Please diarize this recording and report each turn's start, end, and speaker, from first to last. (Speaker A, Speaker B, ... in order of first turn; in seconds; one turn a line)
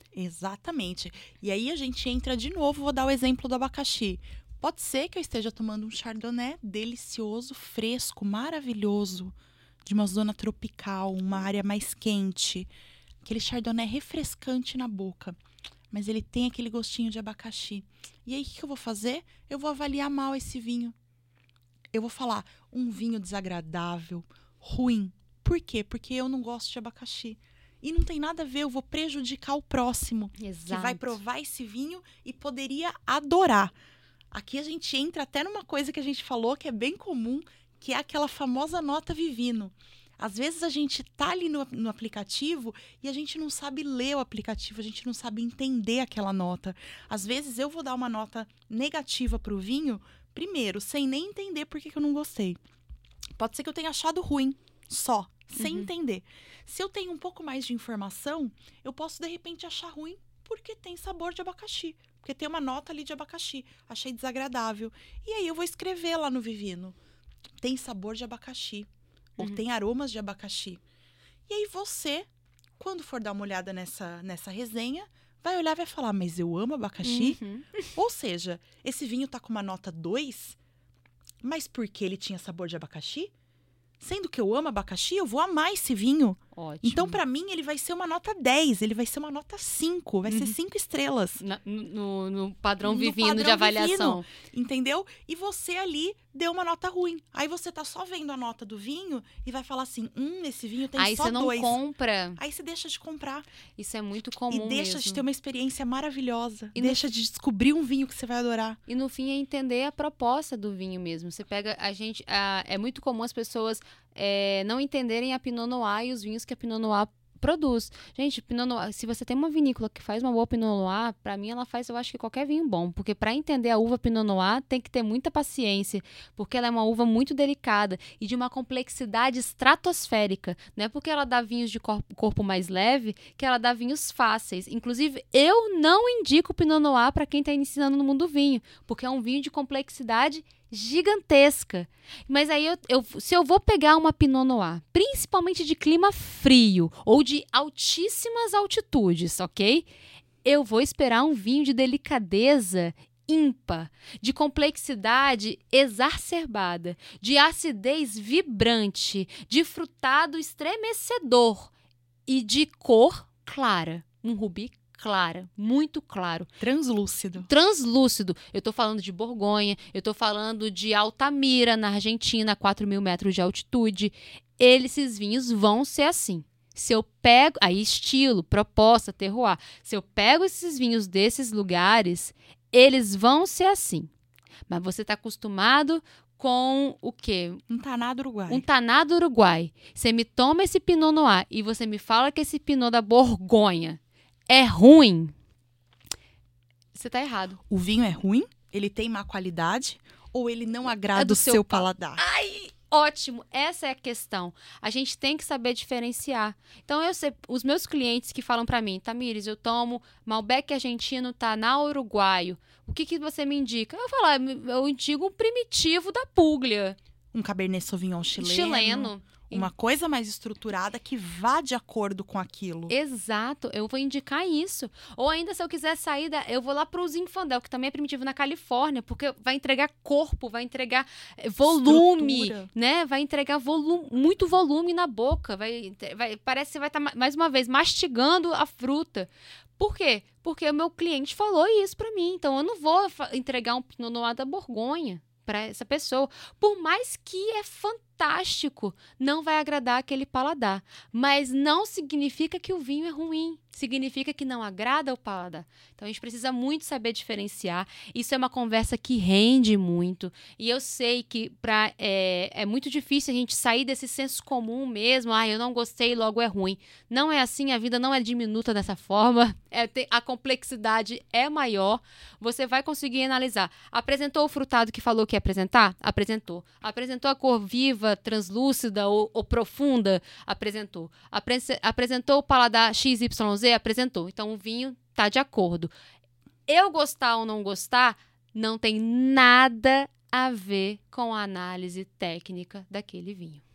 Speaker A: 0.1-12.7
Speaker A: 13.2-15.4
Speaker A: 15.9-20.9
Speaker A: 21.9-33.7
Speaker B: 30.4-31.2
Speaker A: 34.3-52.6
Speaker A: 53.4-67.0
Speaker B: 55.5-55.9
Speaker A: 67.6-70.8
Speaker A: 71.5-80.6
Speaker B: 77.0-77.9
Speaker A: 81.4-83.3
Speaker A: 84.0-91.4
Speaker B: 86.5-87.2
Speaker B: 90.2-90.5
Speaker B: 91.4-94.2
Speaker A: 92.8-101.8
Speaker B: 101.0-102.4
Speaker A: 102.4-103.5
Speaker B: 103.8-105.2
Speaker A: 104.5-108.8
Speaker B: 106.7-107.0
Speaker B: 108.9-149.9
Speaker B: 150.4-161.7
Speaker B: 162.3-166.5
Speaker A: 166.6-167.5
Speaker B: 167.4-184.1
Speaker B: 184.7-187.6
Speaker A: 187.7-188.7
Speaker B: 188.5-195.3
Speaker B: 196.9-197.6
Speaker A: 197.7-202.2
Speaker B: 201.1-217.0
Speaker A: 217.3-222.9
Speaker B: 218.3-219.7
Speaker B: 222.9-285.9
Speaker A: 231.6-232.7
Speaker B: 286.7-293.6